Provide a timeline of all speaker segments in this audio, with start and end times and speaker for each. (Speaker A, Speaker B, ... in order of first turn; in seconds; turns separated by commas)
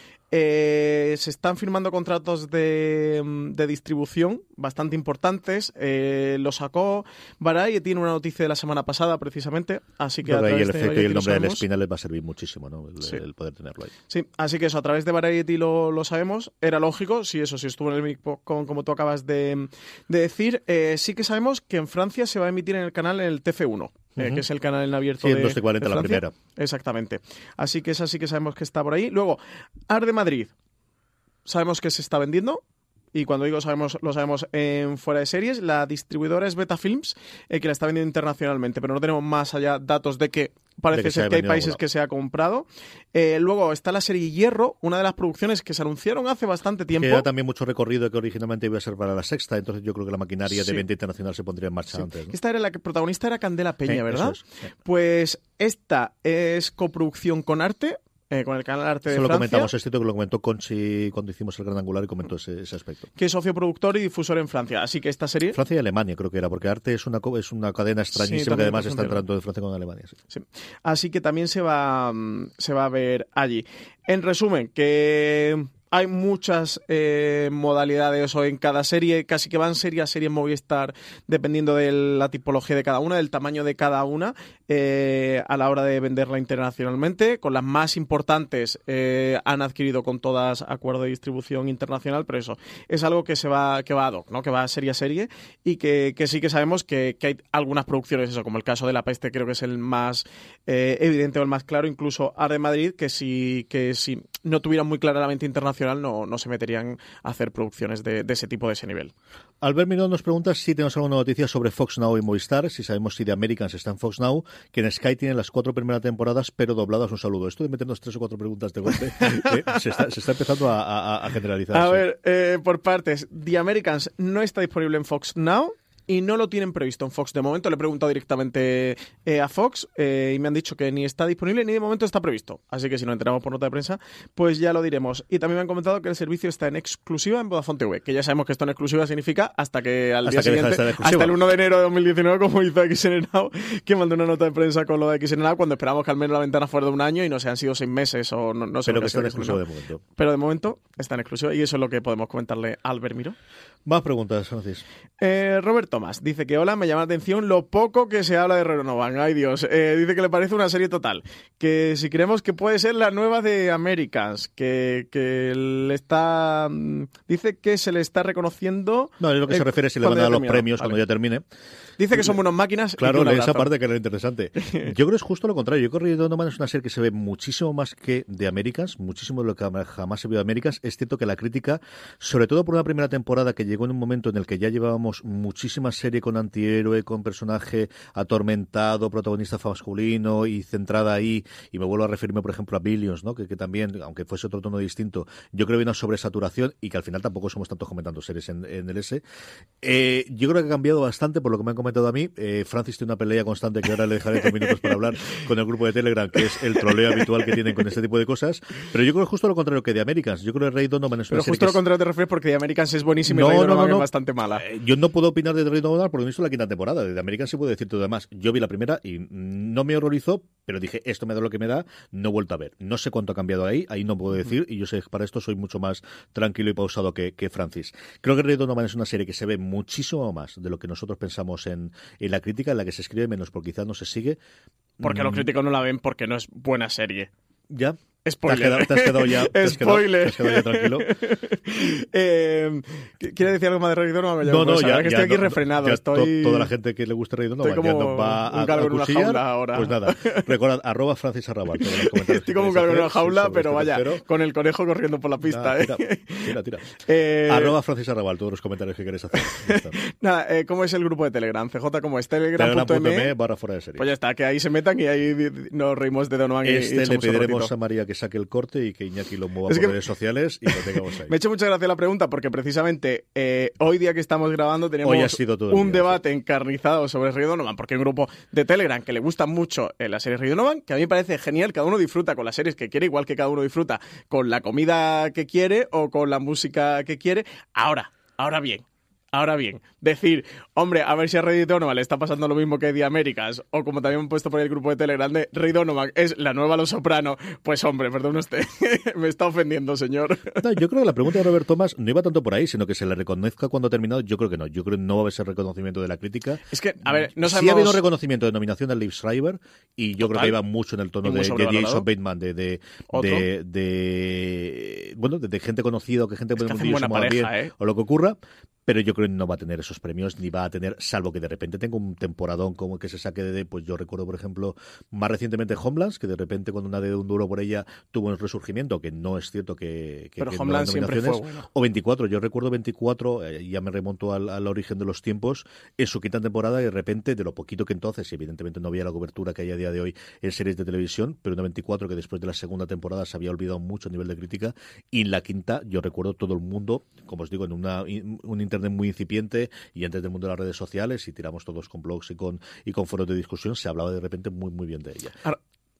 Speaker A: 0.3-11.6, Speaker B: 10.2-13.9, Speaker A: 14.1-30.5, Speaker B: 24.2-24.4, Speaker B: 25.2-26.3, Speaker A: 31.4-32.6, Speaker A: 33.1-47.2, Speaker B: 40.9-41.8, Speaker B: 46.9-52.3, Speaker A: 50.5-50.8, Speaker A: 52.0-59.7, Speaker B: 53.9-54.4, Speaker B: 59.1-63.1, Speaker A: 63.2-65.6, Speaker B: 65.5-70.2, Speaker A: 68.1-69.2, Speaker A: 70.3-109.1, Speaker B: 109.6-122.0, Speaker A: 119.2-119.8, Speaker A: 121.7-149.6, Speaker B: 140.2-141.4, Speaker B: 148.8-150.0, Speaker A: 150.2-153.3, Speaker B: 153.8-154.8, Speaker A: 155.2-171.0, Speaker B: 169.2-171.4, Speaker A: 172.0-173.7, Speaker B: 173.0-199.2, Speaker A: 174.6-174.9, Speaker B: 199.8-211.8, Speaker A: 211.3-214.6, Speaker B: 213.3-214.1, Speaker B: 214.6-234.4, Speaker B: 235.0-235.5, Speaker A: 235.0-237.3, Speaker B: 237.7-241.1, Speaker A: 238.2-246.7, Speaker B: 244.4-254.2, Speaker A: 247.6-250.5, Speaker A: 251.8-256.5, Speaker B: 255.4-256.9, Speaker A: 257.0-257.7, Speaker B: 257.4-260.0, Speaker A: 259.5-263.3, Speaker B: 262.6-264.1, Speaker A: 264.0-267.7, Speaker B: 266.6-271.3, Speaker A: 269.7-269.9, Speaker A: 270.7-300.6, Speaker B: 275.0-276.2, Speaker B: 300.6-355.4, Speaker A: 306.7-308.0, Speaker A: 310.2-310.6, Speaker A: 311.2-312.1, Speaker A: 313.1-313.5, Speaker A: 316.6-317.7, Speaker A: 330.4-331.6